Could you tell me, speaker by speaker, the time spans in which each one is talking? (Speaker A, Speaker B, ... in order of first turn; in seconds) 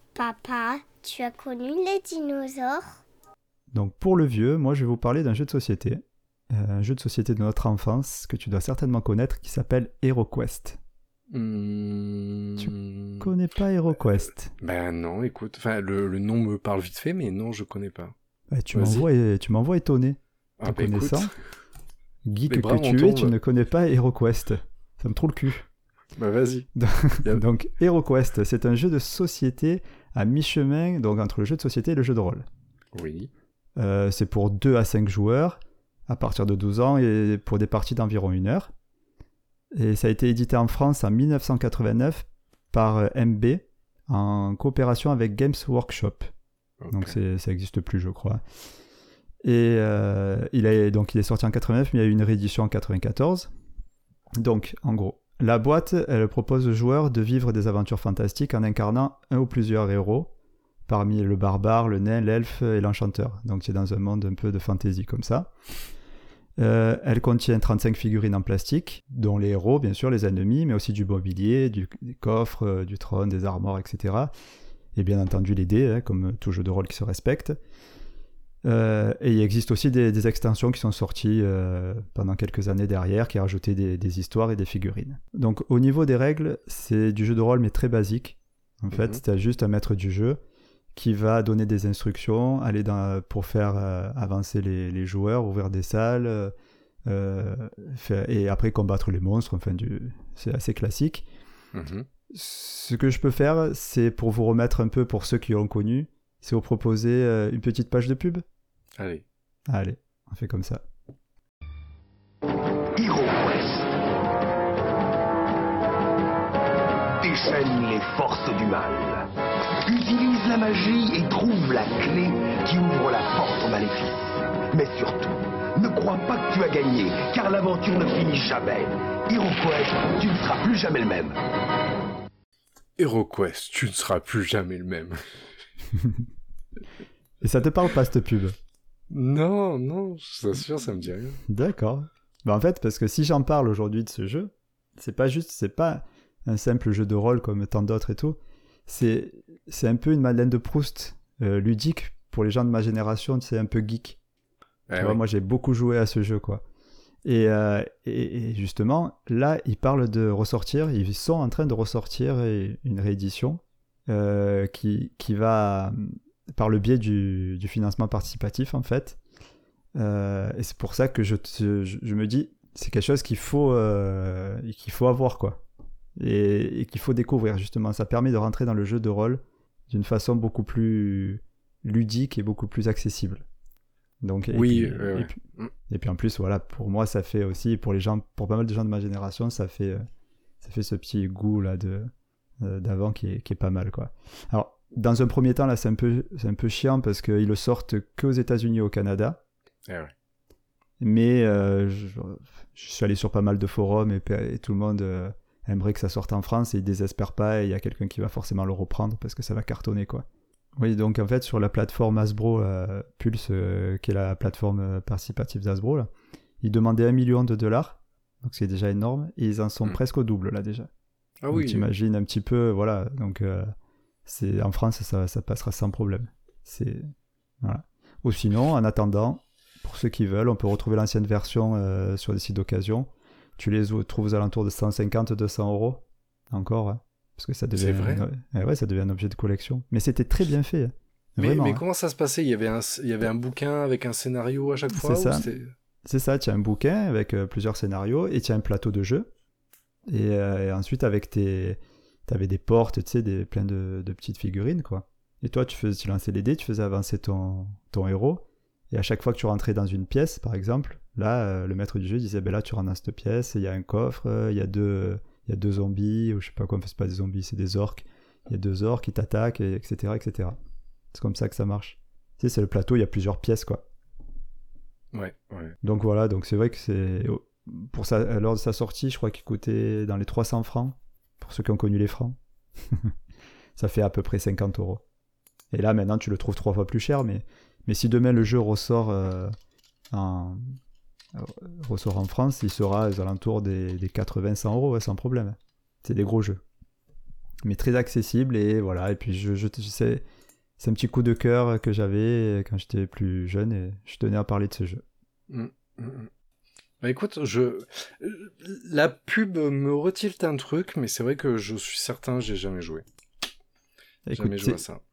Speaker A: 0.1-3.0
Speaker B: 3.7-10.8, 12.6-14.5, 18.5-21.3, 22.2-25.7, 26.8-32.5, 33.8-38.7, 39.7-46.3, 46.9-48.4, 49.4-53.5, 54.4-60.3, 60.9-65.5, 66.6-74.3, 74.9-77.6, 78.6-90.4, 90.9-96.5, 97.1-101.2, 102.3-108.4, 109.7-110.8, 136.0-136.2, 137.4-138.6, 141.5-154.2, 155.0-156.6, 157.2-169.2, 169.9-175.6, 176.2-183.4, 184.2-190.0, 190.6-199.4, 201.0-216.1, 216.6-220.9, 221.5-223.7, 224.2-241.8, 244.9-245.4, 246.0-249.3, 250.1-270.6, 271.1-273.9, 275.8-283.1, 283.8-285.0, 285.7-289.6, 290.1-290.8, 291.4-296.6, 297.6-300.2, 300.8-305.0, 314.3-314.8
Speaker C: 11.3-13.3, 14.6-18.1, 18.7-19.1, 20.6-21.3, 22.5-23.4, 26.2-26.7, 32.9-33.3, 46.8-47.1, 88.9-89.2, 101.7-102.1, 109.0-109.2, 133.0-135.2, 139.1-141.4, 154.9-155.2, 184.5-185.7, 199.9-200.1, 221.4-221.9, 237.8-238.2, 241.4-245.7, 275.1-275.8, 305.5-306.3, 307.0-313.0, 314.3-315.0
Speaker D: 113.0-114.0, 117.2-119.3, 119.8-131.4